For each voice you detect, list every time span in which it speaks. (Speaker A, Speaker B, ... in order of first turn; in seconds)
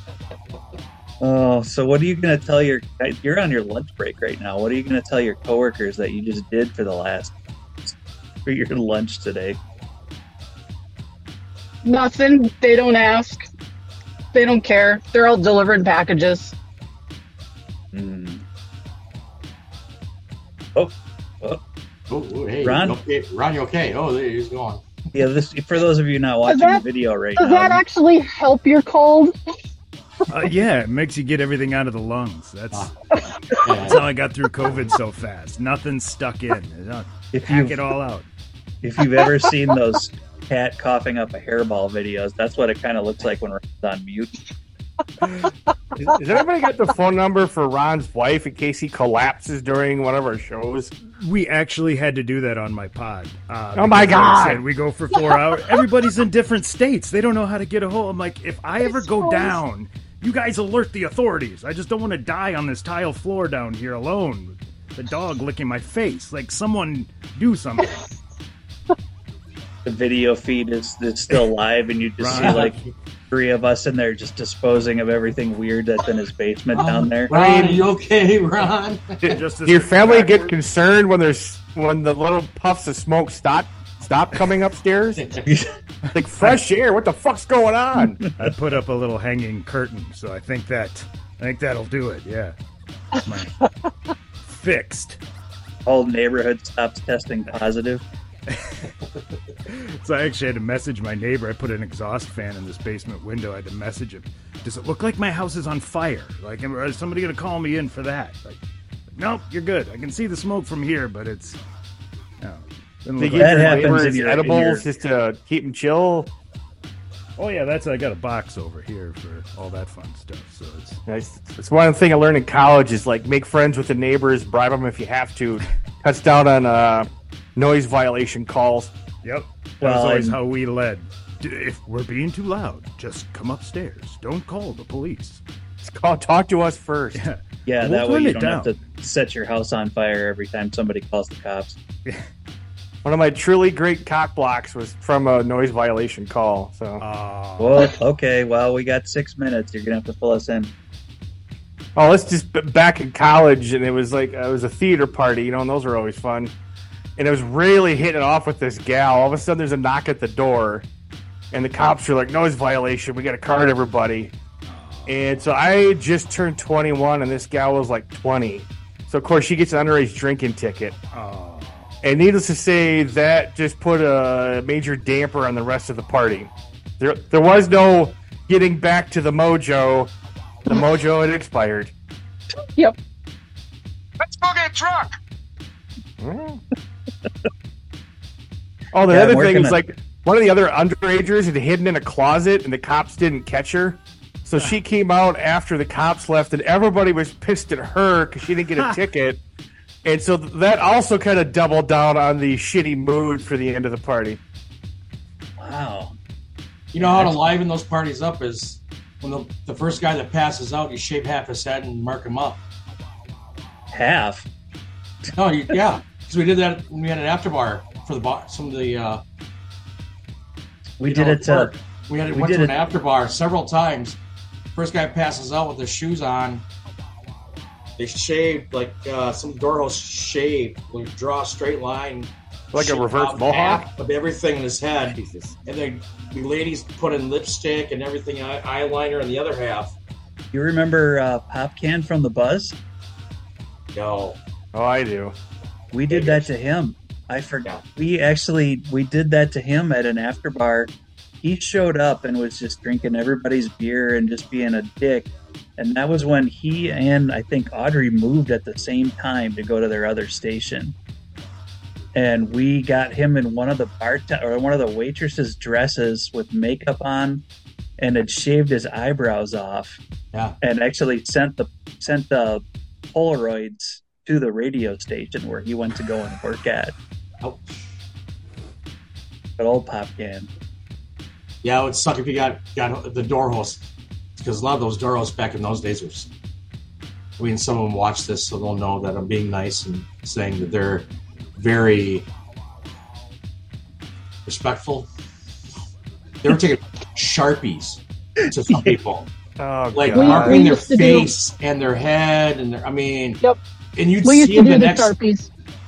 Speaker A: 1.2-9.6, 17.9-18.4, 20.8-21.6, 22.6-23.0, 25.1-27.8, 37.3-37.8, 38.8-44.3, 69.8-72.8, 73.3-77.3, 95.8-98.0, 113.4-114.8, 129.8-130.4, 137.7-141.8, 147.6-150.7, 189.1-189.8, 205.6-206.2, 207.0-207.3, 213.9-214.5, 221.0-221.8, 222.3-222.8, 240.5-242.8, 245.9-261.0, 262.1-267.4, 268.0-270.0, 270.6-276.9, 279.6-280.5, 298.7-298.9
Speaker B: 11.8-13.4, 14.3-16.5, 26.5-26.8, 27.4-29.4, 58.9-59.6, 300.1-301.3, 304.2-305.5
Speaker C: 22.1-24.9, 33.6-34.0, 72.3-72.9, 76.8-79.4, 85.2-85.6, 184.2-185.1, 206.9-212.6, 215.3-219.2, 221.1-224.2, 224.8-226.7, 228.0-239.9, 243.9-244.4, 246.1-246.5, 277.4-277.9, 281.6-286.3, 287.4-292.3, 294.5-295.1, 296.4-299.3, 299.9-303.4, 303.9-305.1
Speaker D: 30.3-32.9, 33.8-38.3, 51.2-68.0, 72.2-72.8, 79.2-80.5, 88.4-92.5, 93.2-93.6, 94.5-95.2, 99.7-108.6, 109.2-111.6, 112.4-114.1, 117.4-121.0, 129.2-135.4, 137.2-138.8, 147.0-147.9, 164.7-165.4, 171.1-171.9
Speaker E: 46.0-50.9, 53.8-54.6, 77.3-77.8, 79.7-85.2, 86.1-88.2, 113.2-116.3, 121.1-128.9, 135.8-137.2, 143.1-147.0, 152.0-156.5, 157.2-160.9, 161.5-164.3, 165.1-171.0, 172.0-180.1, 180.7-181.9, 186.2-186.6, 188.9-199.4, 200.0-204.4, 232.7-233.9, 235.1-235.6, 244.7-245.3, 299.6-300.6